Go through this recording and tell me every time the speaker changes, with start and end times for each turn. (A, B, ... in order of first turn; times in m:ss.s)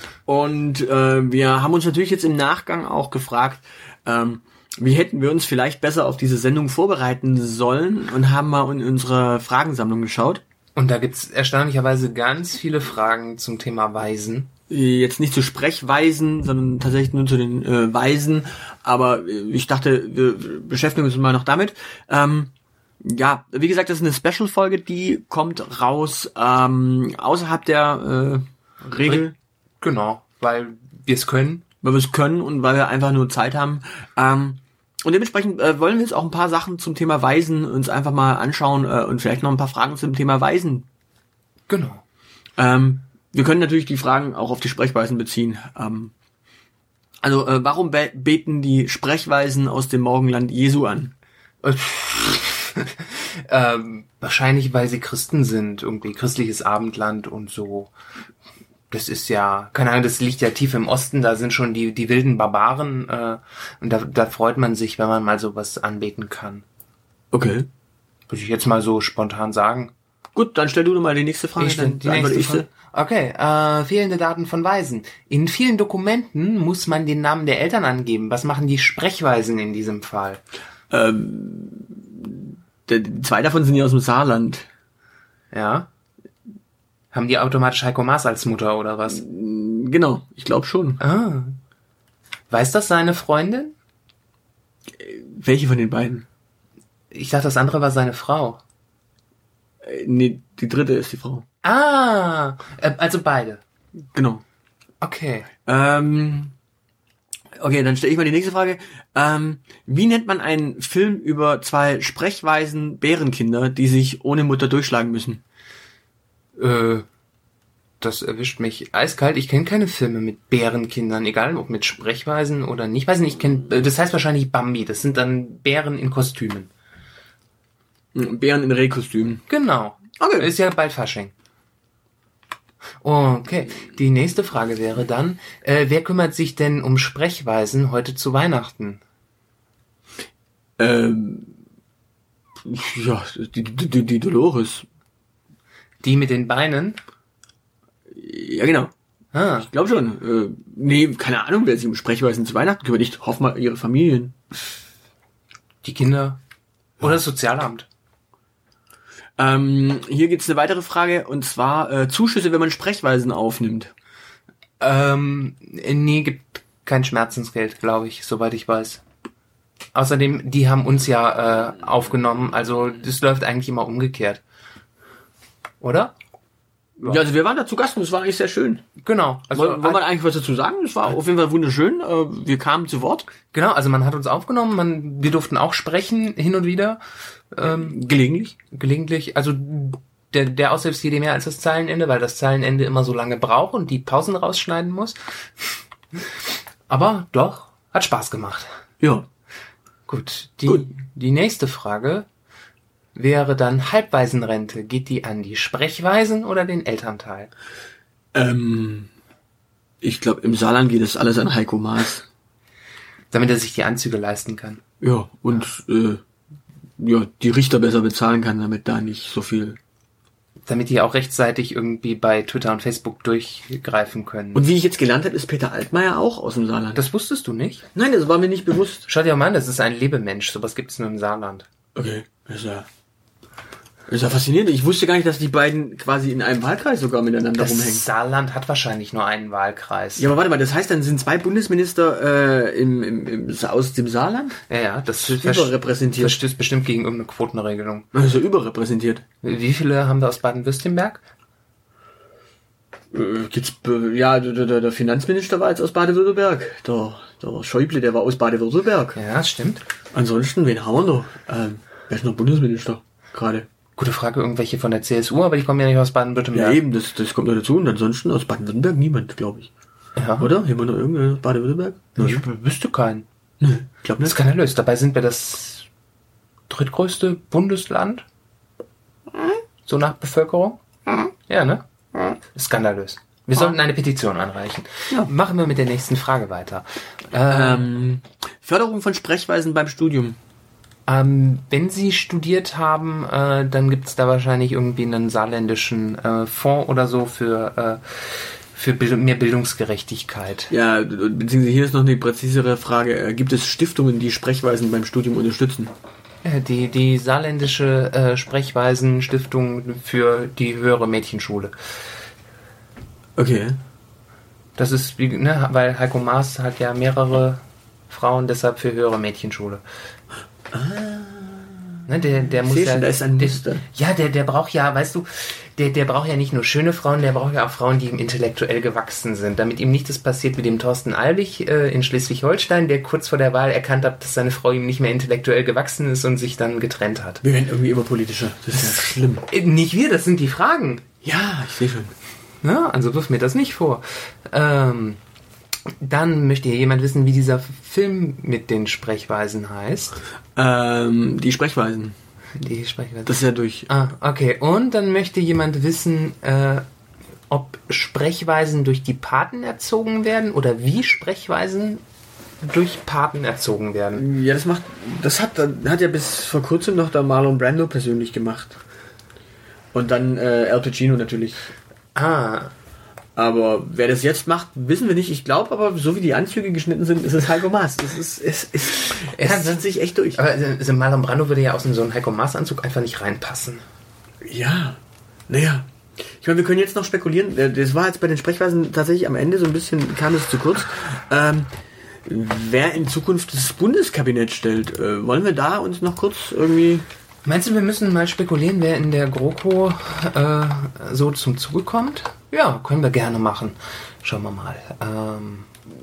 0:00.3-0:10.4 A
0:10.8-0:14.5 B
0:14.7-0:29.3 A
0:29.0-0:29.3 B
0:29.8-0:31.6 B
0:31.8-0:40.9 A
0:41.7-0:42.0 B
0:42.6-0:46.1 A
0:47.2-0:51.1 A
0:51.6-0:57.9 B
0:58.9-1:06.6 B
1:07.3-1:07.7 A
1:08.3-1:09.9 B
1:10.4-1:12.7 A
1:11.6-1:20.4 B
1:20.9-1:24.7 A
1:25.5-1:25.9 B
1:27.1-1:29.2 B
1:29.1-1:31.0 A
1:31.0-1:31.6 B
1:32.5-1:33.8 B
1:35.0-1:36.2 A
1:37.1-1:38.6 B
1:39.8-1:41.4 A
1:41.6-1:43.6 B
1:44.1-1:44.4 A
1:45.0-1:45.5 B
1:45.6-1:46.5 A
1:47.6-1:55.4 A
1:56.6-1:57.1 B
1:58.0-2:06.7 B
2:08.2-2:09.4 A
2:09.5-2:11.3 B
2:10.2-2:10.5 A
2:13.0-2:19.0 B
2:20.8-2:21.5 A
2:22.6-2:24.9 A
2:26.0-2:27.0 B
2:28.1-2:28.9 A
2:29.3-2:29.7 B
2:29.6-2:34.4 A
2:35.8-2:36.4 B
2:37.0-2:37.9 B
2:39.4-2:43.9 A
2:44.8-2:49.0 B
2:50.0-2:54.4 B
2:55.8-2:56.1 B
2:57.0-2:58.8 A
2:59.0-3:00.0 B
2:59.5-3:03.3 A
3:03.5-3:08.0 B
3:07.6-3:08.6 A
3:08.7-3:15.2 B
3:16.9-3:18.7 B
3:19.0-3:19.3 A
3:20.1-3:22.3 B
3:23.2-3:27.5 B
3:28.4-3:29.1 A
3:30.0-3:32.3 A
3:33.3-3:34.8 B
3:35.0-3:36.2 A
3:37.0-3:39.8 A
3:40.7-3:44.7 B
3:44.5-3:47.0 A
3:47.0-3:47.9 B
3:47.9-3:49.1 A
3:49.1-3:51.7 B
3:52.0-3:52.9 A
3:54.1-3:58.0 A
3:57.6-4:00.3 B
4:00.2-4:04.6 A
4:04.7-4:08.1 B
4:05.2-4:06.4 A
4:08.1-4:09.2 A
4:09.4-4:11.2 B
4:13.1-4:19.2 A
4:19.2-4:19.8 B
4:20.1-4:23.7 A
4:24.0-4:26.8 B
4:26.5-4:29.7 A
4:30.2-4:30.5 B
4:30.4-4:32.4 A
4:32.2-4:33.3 B
4:33.6-4:34.4 A
4:34.2-4:35.9 B
4:36.7-4:38.2 B
4:39.9-4:40.8 B
4:41.5-4:47.9 B
4:43.5-4:43.8 A
4:47.5-4:50.4 A
4:51.1-5:00.7 B
5:00.7-5:05.9 A
5:06.4-5:11.8 B
5:13.4-5:13.8 A
5:14.8-5:19.8 B
5:20.7-5:22.0 A
5:22.1-5:37.4 B
5:22.6-5:23.8 A
5:37.4-5:39.5 A
5:39.5-5:41.0 B
5:41.2-5:42.1 A
5:42.6-5:45.2 B
5:46.0-5:50.2 B
5:50.6-5:52.2 A
5:52.6-5:53.4 B
5:53.3-5:53.9 A
5:53.9-5:56.8 B
5:57.5-6:02.0 B
6:02.6-6:04.2 B
6:04.2-6:08.8 A
6:09.9-6:11.7 A
6:12.2-6:12.7 B
6:13.4-6:20.4 A
6:19.0-6:23.8 B
6:24.4-6:31.7 A
6:32.2-6:37.0 A
6:37.4-6:45.7 B